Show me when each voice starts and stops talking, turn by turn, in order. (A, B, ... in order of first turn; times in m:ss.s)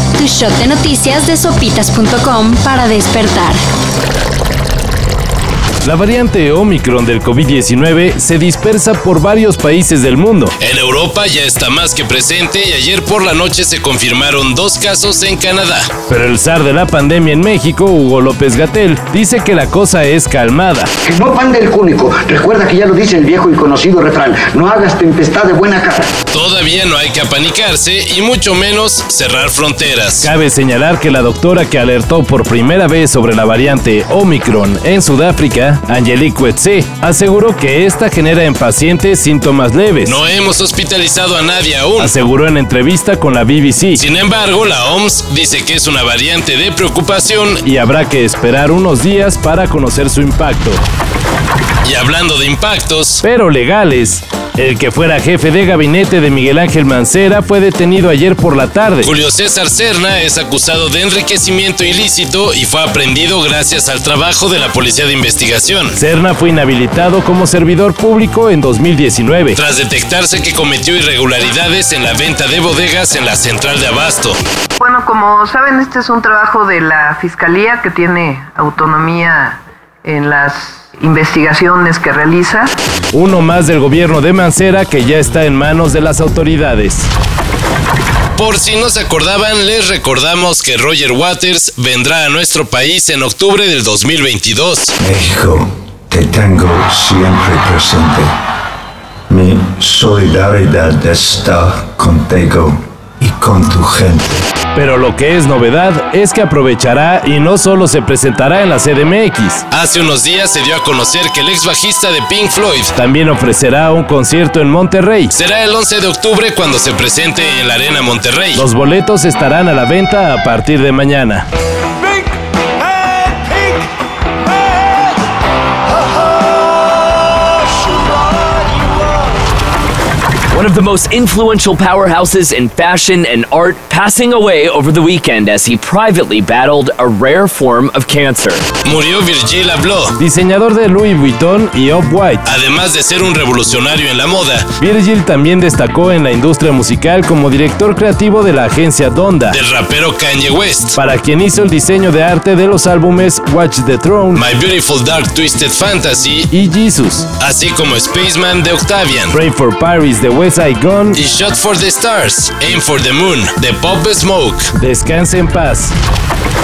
0:00.2-0:03.6 A
0:05.8-0:10.5 B
0:10.6-0:15.9 C
0:16.1-0:20.9 B
0:21.0-0:26.1 D
0:26.3-0:30.3 C
0:30.2-0:40.2 B
0:40.0-0:42.1 C
0:42.0-0:44.0 B
0:43.9-0:47.6 C
0:47.6-0:50.8 B
0:51.8-0:53.2 C
0:53.2-0:59.1 B
0:59.0-1:06.0 C
1:06.0-1:09.6 B
1:09.6-1:14.4 C
1:14.8-1:22.8 E
1:23.1-1:27.1 B
1:28.4-1:34.9 C
1:35.0-1:38.3 F
1:39.3-1:44.5 F
1:44.7-1:49.6 B
1:49.7-1:52.9 C
1:52.9-1:55.3 B
1:55.3-1:58.6 C
1:58.5-2:01.4 B
2:10.5-2:18.7 G
2:18.8-2:20.2 C
2:20.2-2:22.4 B
2:22.4-2:24.7 C
2:24.8-2:29.6 B
2:29.5-2:31.0 C
2:30.9-2:34.4 B
2:34.3-2:36.5 C
2:36.5-2:37.3 B
2:37.4-2:39.4 C
2:39.3-2:41.2 B
2:41.1-2:44.7 C
2:44.8-2:45.9 B